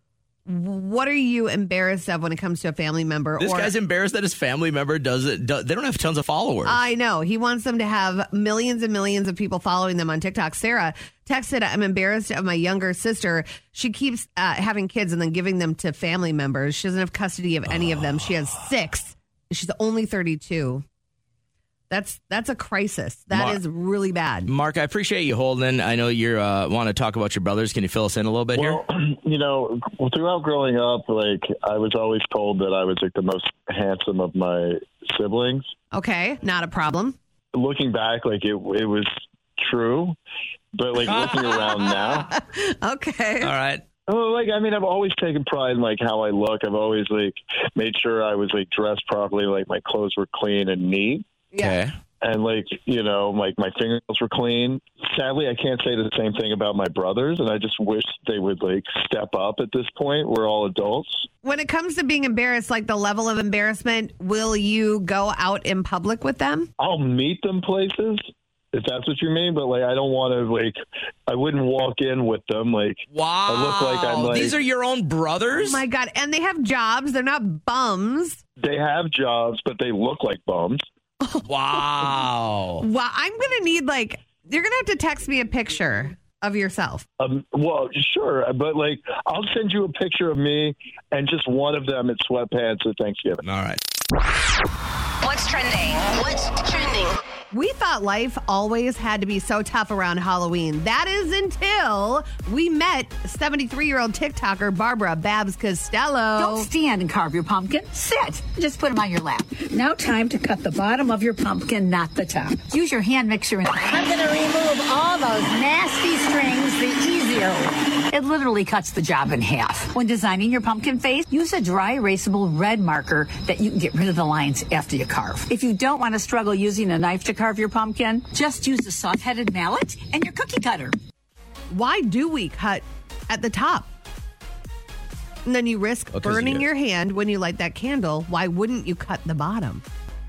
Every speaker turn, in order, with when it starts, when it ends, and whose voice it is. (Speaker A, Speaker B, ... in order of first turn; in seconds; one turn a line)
Speaker A: 0.5-3.7
Speaker B: 3.4-6.8
Speaker A: 6.7-20.8
Speaker A: 21.9-24.5
Speaker B: 23.3-23.6
Speaker B: 24.5-28.8
Speaker C: 28.5-35.7
Speaker A: 35.9-37.2
Speaker C: 37.5-40.2
Speaker C: 40.8-42.3
Speaker B: 41.1-41.6
Speaker A: 42.3-43.5
Speaker B: 43.4-43.8
Speaker C: 44.1-51.2
Speaker B: 51.6-52.0
Speaker C: 52.2-61.3
Speaker A: 61.4-66.7
Speaker C: 66.8-74.6
Speaker B: 73.1-75.8
Speaker A: 75.6-78.4
Speaker C: 78.6-80.8
Speaker B: 81.5-82.8
Speaker A: 82.8-87.1
Speaker C: 87.2-93.4
Speaker B: 93.5-93.8
Speaker D: 95.2-97.2
Speaker A: 97.5-106.7
Speaker E: 106.4-131.0
Speaker A: 131.7-133.9
Speaker A: 135.5-139.8
Speaker B: 136.1-136.7